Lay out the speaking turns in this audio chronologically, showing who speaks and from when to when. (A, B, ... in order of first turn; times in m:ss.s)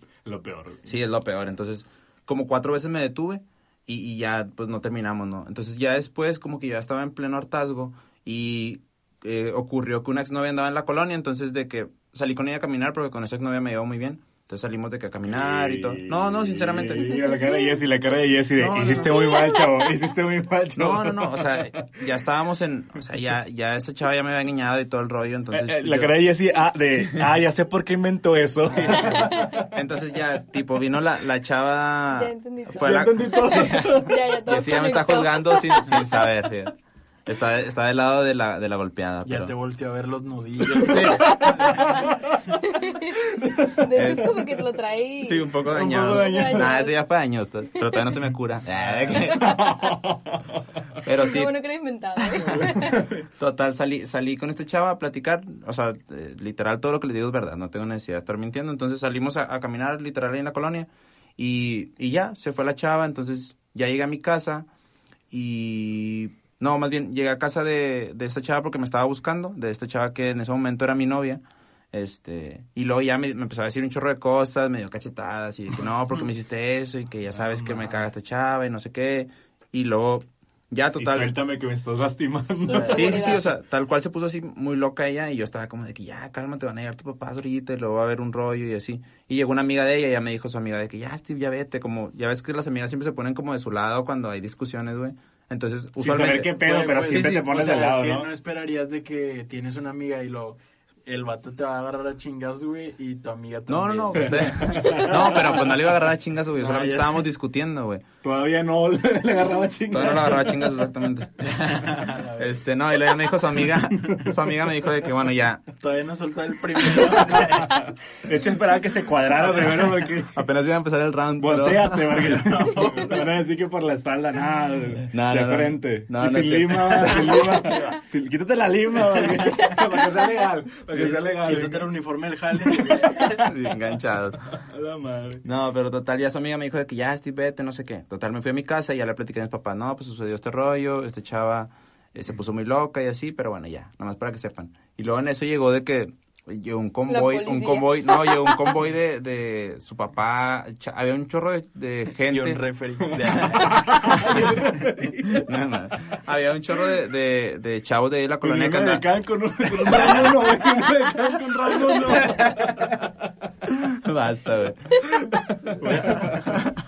0:00.3-0:00.9 A
0:00.8-0:17.1 B
0:15.3-0:22.0 A
0:17.0-0:17.8 C
0:18.6-0:19.4 B
0:18.8-0:20.0 C
0:20.8-0:26.2 B
0:25.5-0:29.7 A
0:28.7-0:29.3 D
0:28.7-0:36.8 B
0:32.1-0:36.2 C
0:32.8-0:34.2 A
0:37.3-0:39.5 B
0:39.2-0:42.1 D
0:40.8-0:42.4 A
0:40.8-0:41.3 B
0:41.1-0:47.0 C
0:43.2-0:44.4 A
0:43.9-0:44.4 B
0:45.2-0:49.5 B
0:45.7-0:46.1 D
0:45.8-0:46.8 A
0:48.8-0:49.3 D
0:49.1-0:50.0 C
0:49.4-0:50.6 A
0:51.0-0:51.6 B
0:51.2-0:53.0 C
0:52.2-1:04.7 B
0:52.7-0:53.3 A
1:05.3-1:21.4 B
1:17.4-1:18.0 A
1:21.0-1:23.2 A
1:22.6-1:23.5 C
1:22.7-1:23.2 D
1:22.7-1:37.5 B
1:36.0-1:38.3 A
1:36.5-1:45.6 D
1:43.7-1:48.0 B
1:44.3-1:45.6 A
1:46.6-1:47.3 D
1:48.2-1:50.6 A
1:49.9-1:55.7 B
1:51.6-1:52.6 D
1:55.8-1:57.8 D
1:56.8-2:00.4 A
1:59.3-2:00.1 D
2:00.3-2:02.3 B
2:01.4-2:11.9 A
2:02.2-2:03.3 D
2:05.1-2:08.0 B
2:10.9-2:13.5 D
2:12.6-2:13.5 A
2:13.3-2:14.6 B
2:14.5-2:15.4 A
2:15.4-2:34.5 B
2:27.1-2:28.8 C
2:32.3-2:34.9 D
2:33.1-2:35.5 A
2:35.3-2:39.1 B
2:38.4-2:43.1 A
2:39.8-2:40.4 D
2:39.8-2:40.4 B
2:41.8-2:42.3 D
2:43.7-2:45.1 B
2:45.0-2:46.6 A
2:45.8-2:46.7 D